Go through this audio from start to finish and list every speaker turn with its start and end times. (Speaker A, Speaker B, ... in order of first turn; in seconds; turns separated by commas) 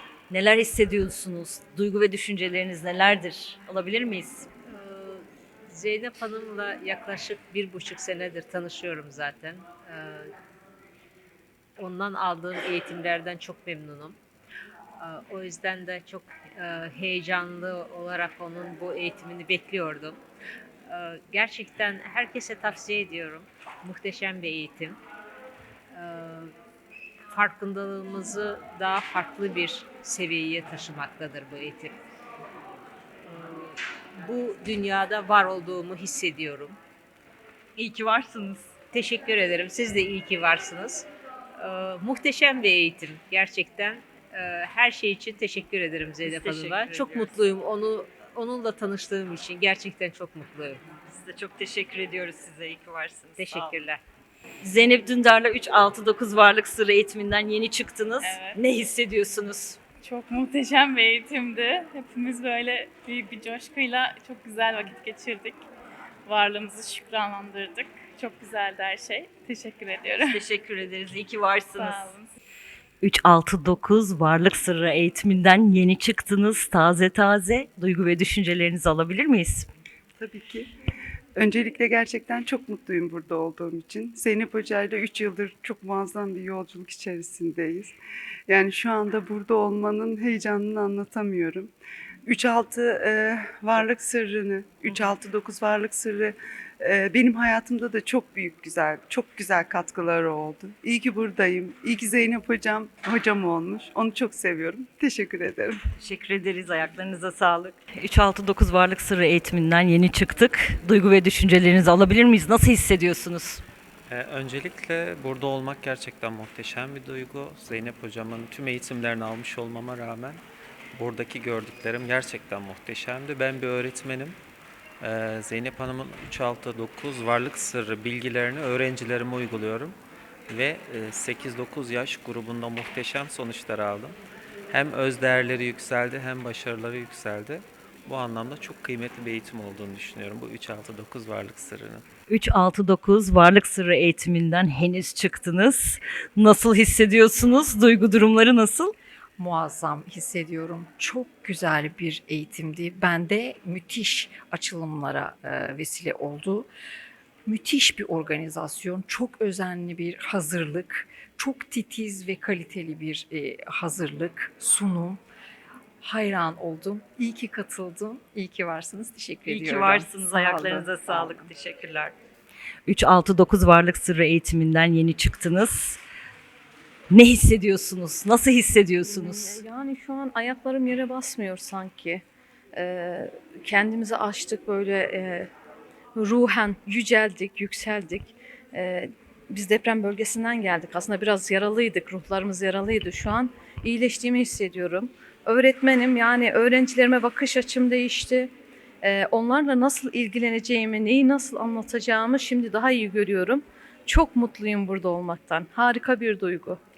Speaker A: 0.3-4.5, Speaker B: 4.7-10.3, Speaker B: 11.8-14.2, Speaker B: 15.0-20.2, Speaker B: 20.9-25.0, Speaker B: 25.9-26.5, Speaker B: 27.3-32.0, Speaker B: 33.2-36.8, Speaker A: 37.8-38.7, Speaker B: 38.9-41.1, Speaker B: 41.6-50.8, Speaker A: 46.2-47.4, Speaker A: 51.1-53.8, Speaker B: 53.4-54.0, Speaker A: 54.6-59.8, Speaker C: 58.2-58.6, Speaker C: 60.0-65.6, Speaker C: 66.2-70.4, Speaker A: 70.1-72.2, Speaker C: 71.8-72.3, Speaker A: 73.0-79.7, Speaker D: 80.2-80.7, Speaker D: 81.3-87.9, Speaker D: 88.5-91.7, Speaker D: 92.2-105.8, Speaker A: 106.0-113.6, Speaker E: 114.1-120.4, Speaker E: 120.9-124.3, Speaker E: 125.0-129.9, Speaker E: 130.5-134.2, Speaker E: 134.7-142.0, Speaker A: 142.3-148.9, Speaker F: 149.4-156.7, Speaker F: 157.4-165.2, Speaker F: 166.0-171.5, Speaker A: 169.4-172.1, Speaker A: 172.8-176.0, Speaker A: 177.1-179.6, Speaker G: 179.0-182.2, Speaker G: 182.7-185.5, Speaker G: 186.2-198.5, Speaker G: 199.0-206.8